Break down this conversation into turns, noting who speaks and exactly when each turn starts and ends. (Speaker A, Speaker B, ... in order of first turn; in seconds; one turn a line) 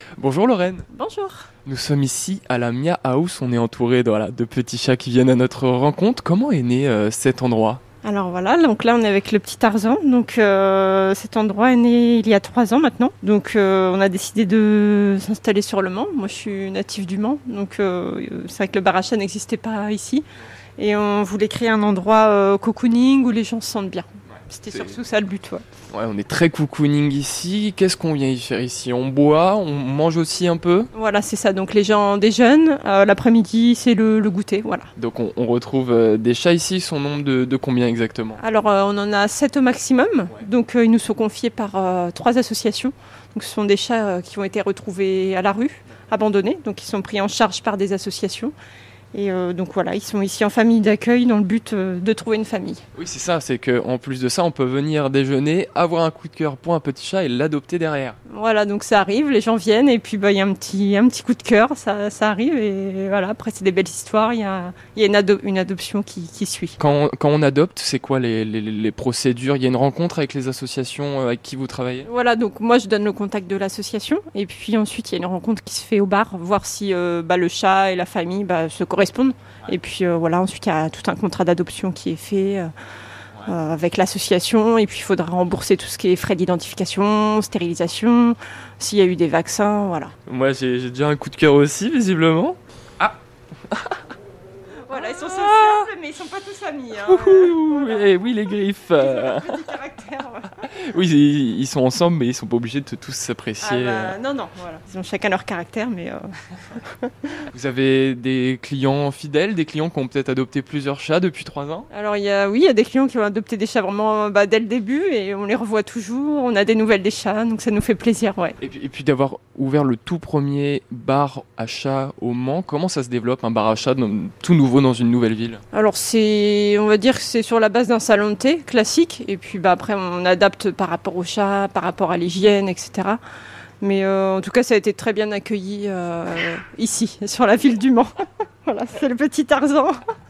Speaker A: 0.2-0.9
Speaker B: 0.9-1.5
Speaker A: 1.6-7.8
Speaker B: 8.0-20.3
Speaker B: 20.8-25.6
Speaker A: 25.9-30.9
Speaker B: 30.9-34.9
Speaker A: 35.0-38.4
Speaker B: 38.4-48.5
Speaker B: 49.1-52.8
Speaker A: 53.0-58.2
Speaker B: 58.3-66.8
Speaker A: 66.8-72.1
Speaker B: 72.1-82.7
Speaker B: 83.4-90.1
Speaker A: 90.3-93.2
Speaker A: 93.7-94.0
Speaker B: 94.9-98.1
Speaker A: 95.0-95.9
Speaker A: 97.0-99.6
Speaker B: 98.9-100.7
Speaker A: 100.7-104.2
Speaker B: 103.6-107.5
Speaker A: 107.5-111.9
Speaker B: 111.9-118.6
Speaker A: 118.6-125.6
Speaker B: 125.7-133.2
Speaker B: 133.8-139.9